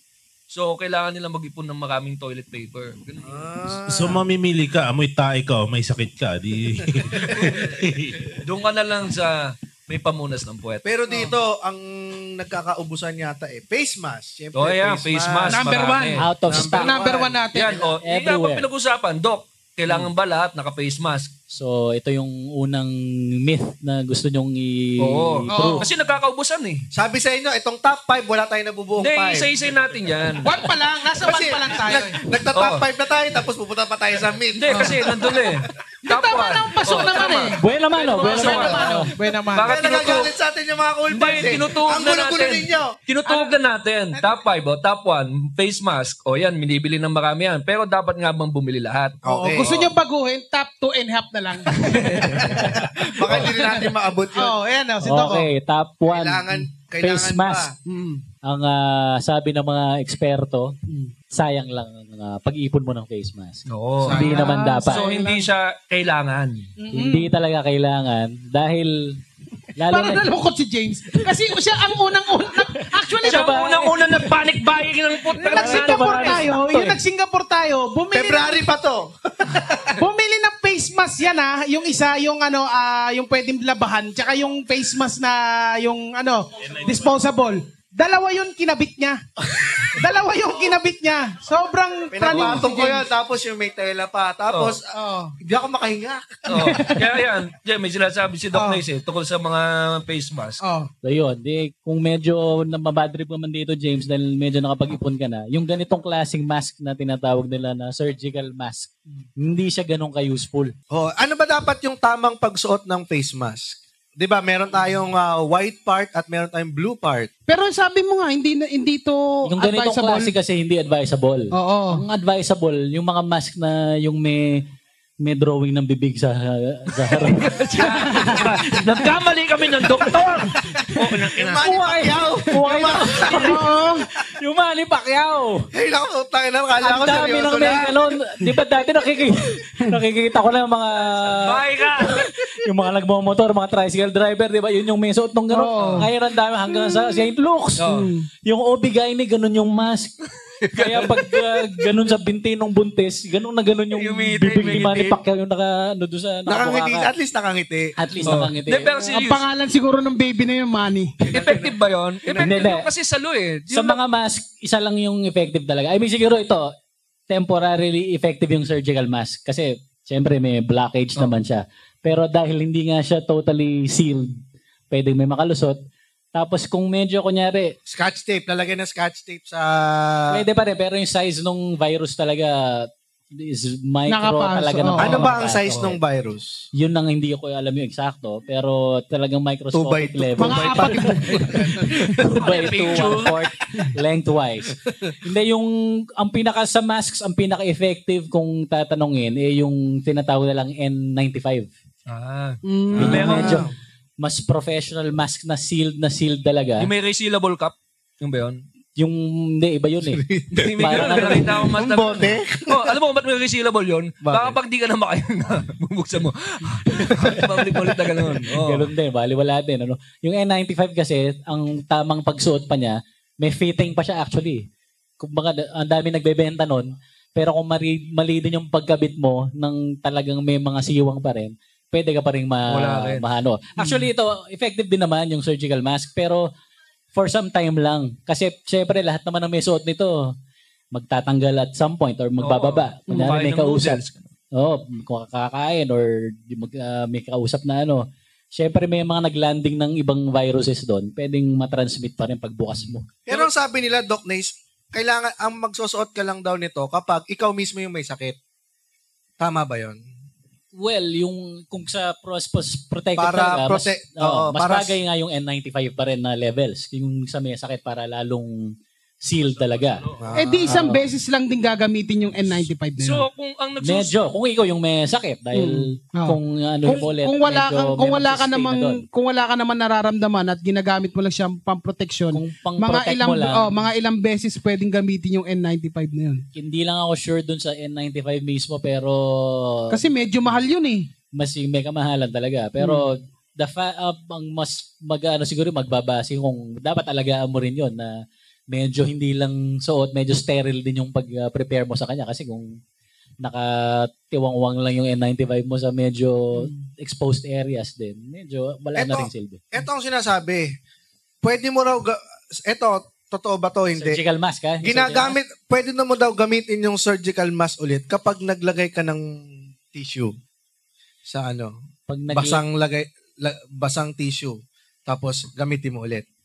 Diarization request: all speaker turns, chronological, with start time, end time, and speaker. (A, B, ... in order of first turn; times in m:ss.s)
0:00.5-0:03.4 A
0:03.2-0:04.2 B
0:03.8-0:08.4 C
0:07.2-0:07.5 B
0:07.4-0:07.6 A
0:08.4-0:10.9 A
0:10.8-0:15.9 B
0:14.5-0:16.2 A
0:15.5-0:16.2 D
0:16.2-0:17.0 E
0:16.4-0:17.9 B
0:16.8-0:17.8 D
0:17.5-0:21.3 A
0:18.0-0:18.6 E
0:21.5-0:25.8 E
0:25.0-0:26.8 A
0:25.5-0:25.9 D
0:26.9-0:29.5 B
0:29.0-0:30.6 A
0:30.4-0:32.2 D
0:31.2-0:35.6 B
0:32.5-0:32.8 A
0:34.5-0:38.9 A
0:34.7-0:35.0 D
0:36.0-0:37.6 D
0:37.6-0:39.0 E
0:38.2-0:39.8 D
0:39.5-0:40.3 A
0:39.6-0:42.9 B
0:41.1-0:49.9 A
0:43.2-0:43.6 D
0:49.2-0:49.7 B
0:49.2-0:55.5 D
0:51.8-0:52.8 A
0:52.4-0:54.6 B
0:55.0-0:56.4 E
0:56.0-0:57.7 B
0:57.0-0:57.7 E
0:57.8-0:58.2 D
0:58.4-1:00.7 E
1:01.3-1:03.6 E
1:03.7-1:04.2 A
1:04.0-1:04.4 B
1:04.1-1:05.5 D
1:04.2-1:05.1 E
1:04.9-1:06.7 A
1:06.8-1:07.3 D
1:06.9-1:09.2 E
1:09.8-1:10.2 E
1:09.9-1:13.9 D
1:13.2-1:14.3 E
1:13.2-1:16.5 A
1:15.4-1:18.6 D
1:15.5-1:17.0 E
1:18.1-1:20.0 B
1:20.0-1:29.2 D
1:26.6-1:27.0 C
1:29.8-1:33.0 D
1:32.1-1:34.8 B
1:34.5-1:34.8 A
1:34.9-1:35.3 D
1:35.4-1:36.8 B
1:36.5-1:40.6 A
1:36.6-1:37.0 D
1:38.5-1:38.8 D
1:40.6-1:40.9 D
1:41.0-1:50.7 E
1:50.9-1:57.3 B
1:57.5-2:00.3 D
1:59.5-2:04.6 E
2:01.5-2:02.0 D
2:05.2-2:07.5 E
2:07.0-2:11.9 A
2:07.8-2:08.6 D
2:11.4-2:13.6 B
2:12.5-2:13.6 E
2:13.2-2:14.0 D
2:14.4-2:15.7 E
2:15.7-2:17.9 B
2:16.8-2:27.9 E
2:21.1-2:22.2 A
2:25.5-2:26.1 D
2:25.8-2:26.0 A
2:27.8-2:28.1 A
2:27.9-2:28.3 D
2:28.4-2:30.1 E
2:30.6-2:31.4 A
2:30.7-2:37.1 E
2:34.0-2:35.2 A
2:36.5-2:37.9 B
2:38.0-2:38.9 E
2:38.2-2:39.4 A
2:39.0-2:41.1 D
2:41.2-2:41.7 B
2:41.2-2:44.0 A
2:42.4-2:42.9 E
2:43.7-2:46.7 E
2:47.3-2:54.3 E
2:54.9-2:55.8 E
2:56.3-2:57.7 E
2:57.9-3:00.4 B
3:00.3-3:05.7 E
3:04.1-3:05.2 D
3:05.0-3:06.6 B
3:05.7-3:06.0 A
3:06.8-3:10.9 E
3:09.7-3:12.2 B
3:10.4-3:12.2 D
3:12.2-3:21.7 E
3:12.3-3:13.4 A
3:14.9-3:15.1 B
3:22.1-3:23.6 A
3:22.7-3:23.6 D
3:22.9-3:23.7 B
3:23.0-3:23.6 E
3:24.2-3:26.9 E
3:26.8-3:28.6 A
3:29.0-3:30.2 E
3:30.0-3:32.9 B
3:30.5-3:38.9 A
3:30.8-3:31.4 E
3:34.2-3:34.6 B
3:38.6-3:44.6 E
3:45.2-3:56.5 E
3:52.7-3:53.2 A
3:53.8-3:54.1 D
3:57.1-4:00.2 E
4:00.9-4:04.0 E
4:02.4-4:04.3 A
4:04.5-4:08.0 E
4:08.5-4:13.0 E
4:13.3-4:18.4 B
4:19.4-4:20.0 B
4:20.7-4:30.1 E
4:23.2-4:25.0 B
4:30.2-4:30.8 B
4:30.3-4:33.2 D
4:30.7-4:31.0 E
4:33.0-4:34.1 A
4:33.8-4:39.0 E
4:35.5-4:46.4 D
4:42.3-4:43.7 E
4:46.5-4:50.1 E
4:49.9-4:51.1 D
4:51.4-4:58.1 E
4:52.8-4:53.1 D
4:58.7-5:02.7 E
5:03.4-5:09.6 E
5:06.5-5:06.8 D
5:09.0-5:10.7 B
5:11.4-5:14.2 B
5:14.0-5:15.4 E
5:14.8-5:19.3 B
5:19.9-5:20.3 B
5:21.2-5:21.7 B
5:22.1-5:22.6 E
5:22.3-5:26.2 B